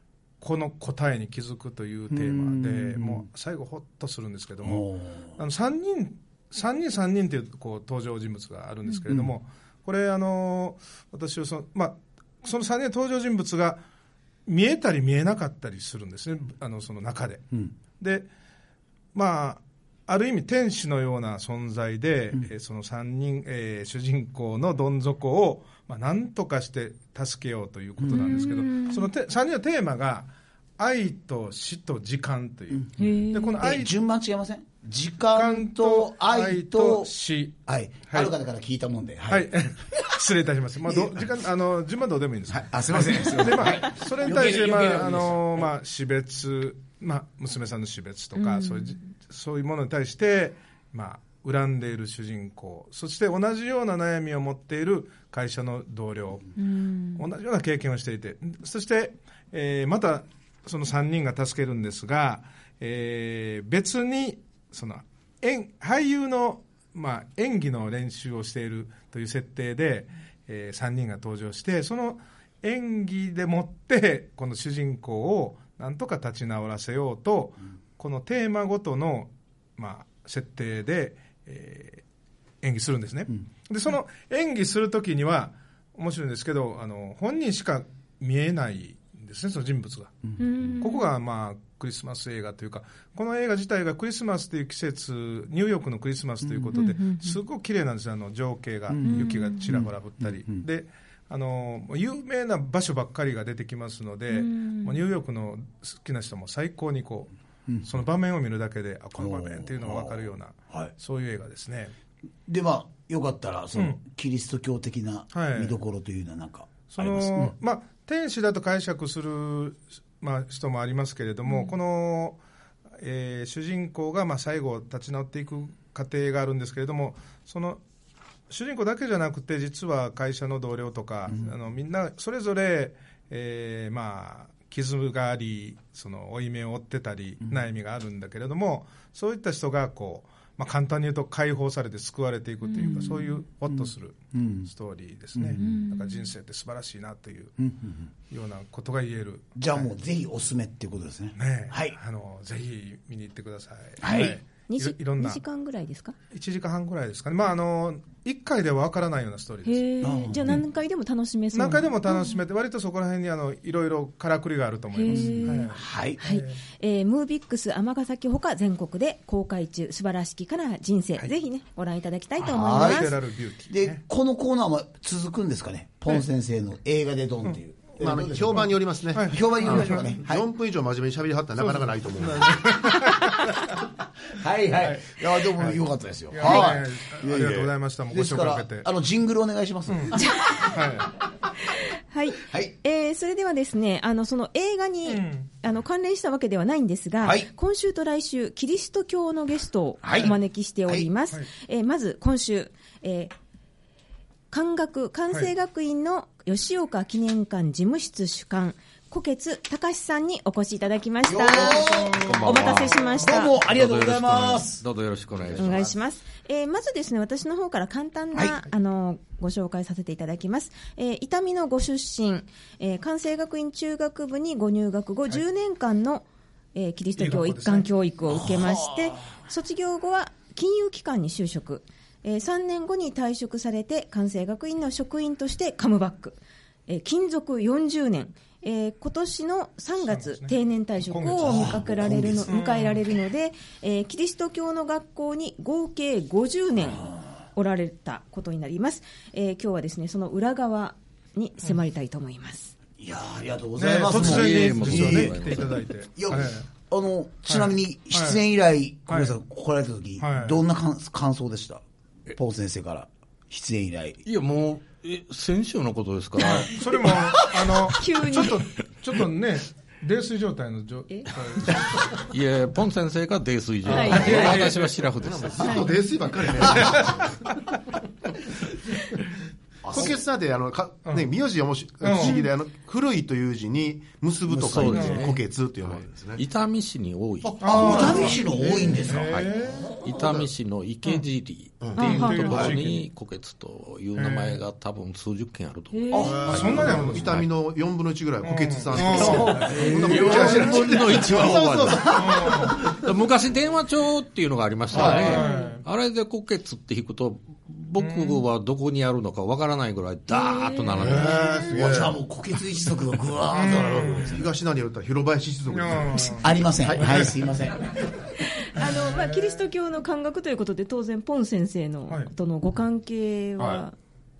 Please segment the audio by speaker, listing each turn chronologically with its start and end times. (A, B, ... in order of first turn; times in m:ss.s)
0:00.4-0:04.9 A
0:02.1-0:03.3 B
0:04.6-0:05.3 B
0:05.4-0:13.8 A
0:14.5-0:18.3 A
0:19.1-0:33.9 A
0:28.0-0:28.3 B
0:28.1-0:29.1 C
0:33.0-0:33.6 C
0:33.6-0:37.1 B
0:35.3-0:37.6 A
0:37.7-0:39.5 B
0:39.3-0:56.5 A
0:40.9-0:41.2 B
0:42.5-0:45.6 B
0:48.4-0:49.0 C
0:56.6-0:57.2 C
0:57.2-1:22.0 A
1:22.6-1:30.2 A
1:30.4-1:31.1 C
1:30.8-1:47.3 A
1:36.7-1:37.4 C
1:38.9-1:40.6 B
1:39.0-1:39.6 C
1:44.3-1:45.0 C
1:47.8-1:51.9 A
1:49.2-1:50.9 B
1:52.5-1:57.5 B
1:55.3-1:55.8 A
1:56.9-2:02.4 A
2:01.5-2:01.7 C
2:03.0-2:07.8 A
2:08.5-2:27.6 A
2:22.7-2:23.4 C
2:23.7-2:24.7 B
2:25.4-2:25.8 B
2:25.6-2:26.3 C
2:27.6-2:28.0 B
2:28.3-2:29.8 A
2:29.6-2:32.0 B
2:31.4-2:35.4 A
2:34.0-2:34.4 B
2:34.7-2:36.2 C
2:36.3-2:39.9 A
2:39.6-2:42.4 C
2:40.0-2:40.6 B
2:41.5-2:46.6 A
2:44.9-2:53.2 C
2:45.1-2:46.2 B
2:52.4-2:53.1 B
2:52.7-2:54.0 A
2:53.7-3:00.4 B
2:58.0-3:02.8 D
2:59.2-3:00.1 A
3:01.6-3:03.9 A
3:04.3-3:10.2 B
3:04.8-3:05.8 A
3:06.3-3:08.9 A
3:09.9-3:11.1 A
3:10.2-3:10.8 C
3:11.7-3:23.3 C
3:12.4-3:12.7 B
3:15.1-3:15.5 A
3:17.2-3:17.5 B
3:20.0-3:20.4 B
3:24.5-3:33.6 C
3:31.3-3:34.8 B
3:32.0-3:32.4 A
3:32.1-3:36.0 E
3:35.6-4:12.8 C
3:47.2-3:47.9 A
3:48.3-3:49.3 B
4:00.0-4:01.8 A
4:01.4-4:02.5 B
4:02.5-4:03.0 A
4:13.0-4:24.2 B
4:13.8-4:16.7 A
4:14.0-4:15.9 E
4:17.5-4:18.4 A
4:19.1-4:19.4 A
4:20.2-4:20.6 A
4:24.2-4:27.8 E
4:26.4-4:32.1 A
4:27.9-4:28.6 C
4:31.7-4:36.0 E
4:33.9-4:35.0 A
4:33.9-4:34.6 C
4:34.3-4:34.6 D
4:35.2-4:37.5 D
4:35.6-4:36.0 C
4:36.8-4:37.7 A
4:39.8-4:40.2 B
4:39.9-4:46.4 D
4:42.0-4:42.4 A
4:42.1-4:42.5 C
4:44.5-4:45.3 B
4:44.5-4:48.4 E
4:47.4-4:50.0 A
4:47.6-4:49.4 B
4:47.7-4:49.0 D
4:49.1-4:57.5 E
4:50.1-4:50.5 D
4:51.8-4:52.8 D
4:52.0-4:52.7 C
4:52.1-4:53.0 A
4:54.2-4:54.6 A
4:55.9-4:56.5 C
4:56.2-5:02.9 D
4:56.3-4:57.3 A
4:58.4-5:00.8 A
4:59.2-5:02.6 B
4:59.2-5:11.7 E
5:02.1-5:02.8 A
5:04.9-5:05.4 D
5:04.9-5:05.4 B
5:05.0-5:05.8 A
5:05.2-5:05.8 C
5:08.0-5:08.4 A
5:10.3-5:11.7 C
5:11.0-5:12.2 A
5:11.1-5:14.5 B
5:11.1-5:12.1 D
5:13.5-5:14.4 A
5:13.6-5:17.3 D
5:15.7-5:17.4 A
5:16.4-5:18.1 B
5:18.4-5:24.0 C
5:18.8-5:19.6 A
5:23.6-5:23.8 A